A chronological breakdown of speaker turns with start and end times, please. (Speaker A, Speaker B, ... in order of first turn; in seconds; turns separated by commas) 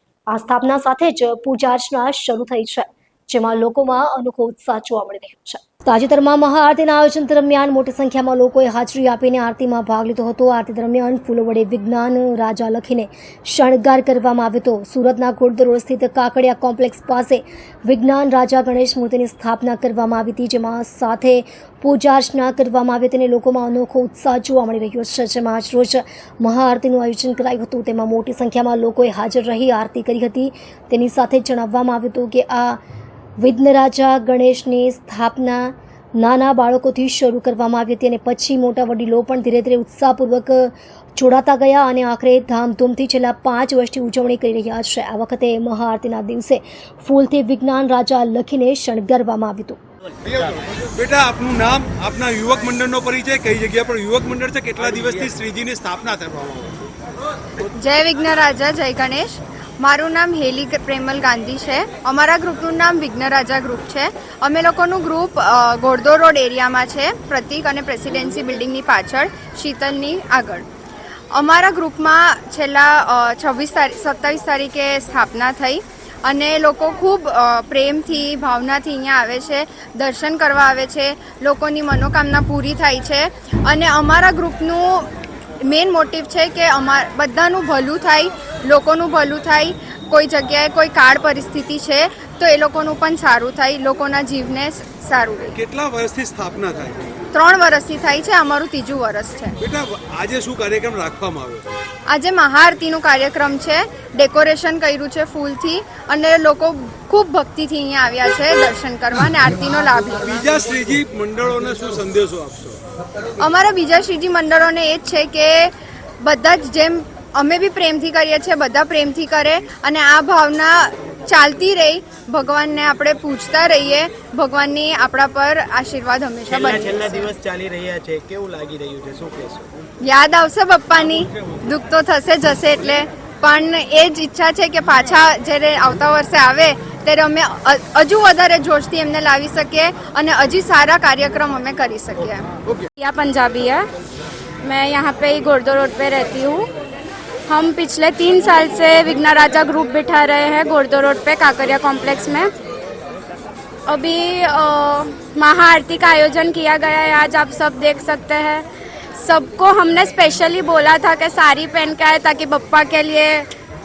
Speaker A: 0.3-32.8, Speaker A: 33.4-49.8, Speaker B: 51.0-56.9, Speaker C: 57.8-70.7, Speaker C: 71.3-85.1, Speaker C: 85.7-95.6, Speaker B: 95.6-97.2, Speaker C: 97.3-99.5, Speaker B: 99.6-101.8, Speaker C: 102.1-110.5, Speaker B: 110.2-112.8, Speaker C: 113.4-115.7, Speaker C: 116.2-127.3, Speaker D: 126.5-129.7, Speaker C: 130.0-142.5, Speaker E: 143.0-143.9, Speaker E: 144.6-146.7, Speaker E: 147.5-152.5, Speaker E: 153.9-158.6, Speaker E: 159.2-163.4